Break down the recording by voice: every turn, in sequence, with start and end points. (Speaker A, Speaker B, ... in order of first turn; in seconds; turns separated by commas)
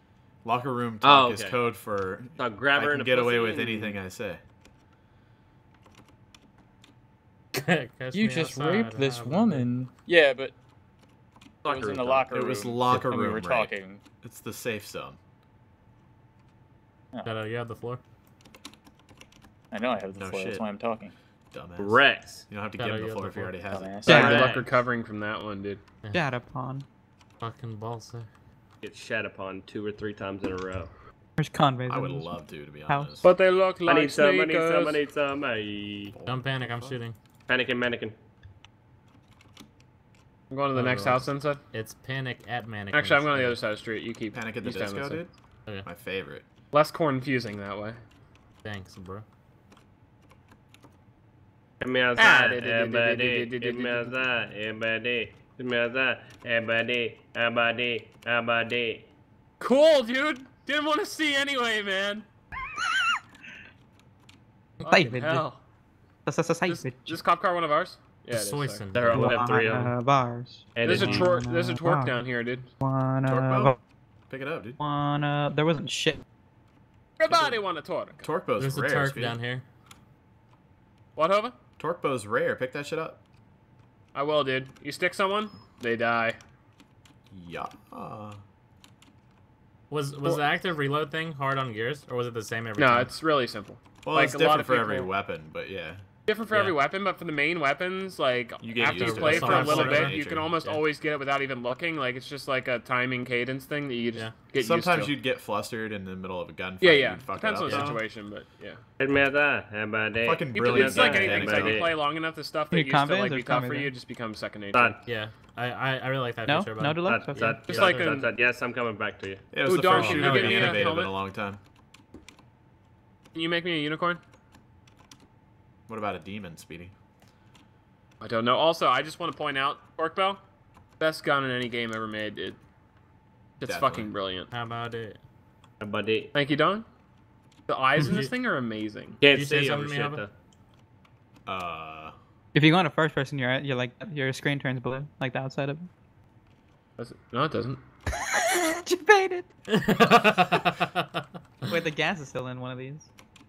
Speaker A: 0.4-4.4, Speaker B: 1.0-1.6, Speaker B: 2.4-4.0, Speaker C: 7.5-9.7, Speaker D: 8.1-10.5, Speaker B: 11.6-12.3, Speaker D: 11.7-14.0, Speaker A: 12.3-15.2, Speaker C: 17.2-18.0, Speaker D: 19.7-21.1, Speaker A: 20.1-20.6, Speaker A: 21.5-24.5, Speaker B: 21.8-22.5, Speaker C: 22.8-23.6, Speaker D: 23.6-24.2, Speaker E: 24.1-25.8, Speaker F: 24.1-24.5, Speaker B: 24.2-24.7, Speaker F: 26.1-26.9, Speaker C: 27.4-28.3, Speaker B: 28.8-30.9, Speaker F: 31.4-33.1, Speaker A: 31.9-33.4, Speaker E: 33.2-35.0, Speaker B: 33.9-36.1, Speaker A: 36.1-37.0, Speaker C: 36.3-37.2, Speaker B: 37.5-38.1, Speaker E: 40.5-41.6, Speaker C: 40.7-43.6, Speaker E: 42.9-45.3, Speaker A: 44.3-45.3, Speaker A: 45.8-46.4, Speaker E: 46.7-48.0, Speaker C: 48.6-49.2, Speaker B: 51.8-59.1, Speaker E: 52.2-54.2, Speaker E: 59.6-62.3, Speaker F: 64.8-65.4, Speaker E: 64.9-65.6, Speaker F: 66.3-67.1, Speaker E: 66.7-68.9, Speaker C: 68.3-69.4, Speaker B: 68.9-69.9, Speaker F: 69.1-72.2, Speaker B: 70.8-71.2, Speaker E: 70.8-72.7, Speaker C: 71.0-71.2, Speaker F: 72.8-73.8, Speaker A: 73.2-73.8, Speaker A: 74.3-74.8, Speaker F: 74.8-76.2, Speaker E: 77.2-78.3, Speaker A: 77.3-77.6, Speaker A: 78.2-79.4, Speaker C: 78.6-79.7, Speaker E: 81.2-81.5, Speaker A: 81.8-83.2, Speaker E: 84.1-86.4, Speaker A: 87.3-88.4, Speaker C: 89.9-93.1, Speaker E: 90.2-90.5, Speaker E: 92.8-95.1, Speaker A: 94.0-96.0, Speaker E: 96.3-105.1, Speaker C: 96.5-96.8, Speaker A: 98.6-100.5, Speaker C: 98.9-100.8, Speaker A: 104.6-108.0, Speaker E: 106.8-108.8, Speaker C: 107.7-107.9, Speaker B: 109.0-112.0, Speaker A: 110.2-111.9, Speaker E: 110.5-115.0, Speaker F: 112.7-113.9, Speaker B: 114.7-115.0, Speaker C: 115.0-117.6, Speaker F: 116.5-117.8, Speaker B: 117.0-119.4, Speaker E: 117.6-118.3, Speaker A: 119.5-121.6, Speaker E: 119.7-121.1, Speaker C: 119.9-120.9, Speaker E: 123.3-124.2, Speaker A: 125.9-126.9, Speaker E: 128.2-130.4, Speaker E: 131.0-132.6, Speaker E: 133.6-134.5, Speaker A: 133.7-134.1, Speaker C: 134.5-135.2, Speaker B: 135.8-136.3, Speaker E: 136.3-136.9, Speaker E: 137.7-139.2, Speaker C: 138.0-138.3, Speaker B: 139.2-140.3, Speaker C: 139.3-140.2, Speaker A: 141.5-142.2, Speaker F: 142.5-145.9, Speaker E: 147.0-147.8, Speaker F: 148.3-149.5, Speaker C: 149.7-151.1, Speaker F: 151.7-153.1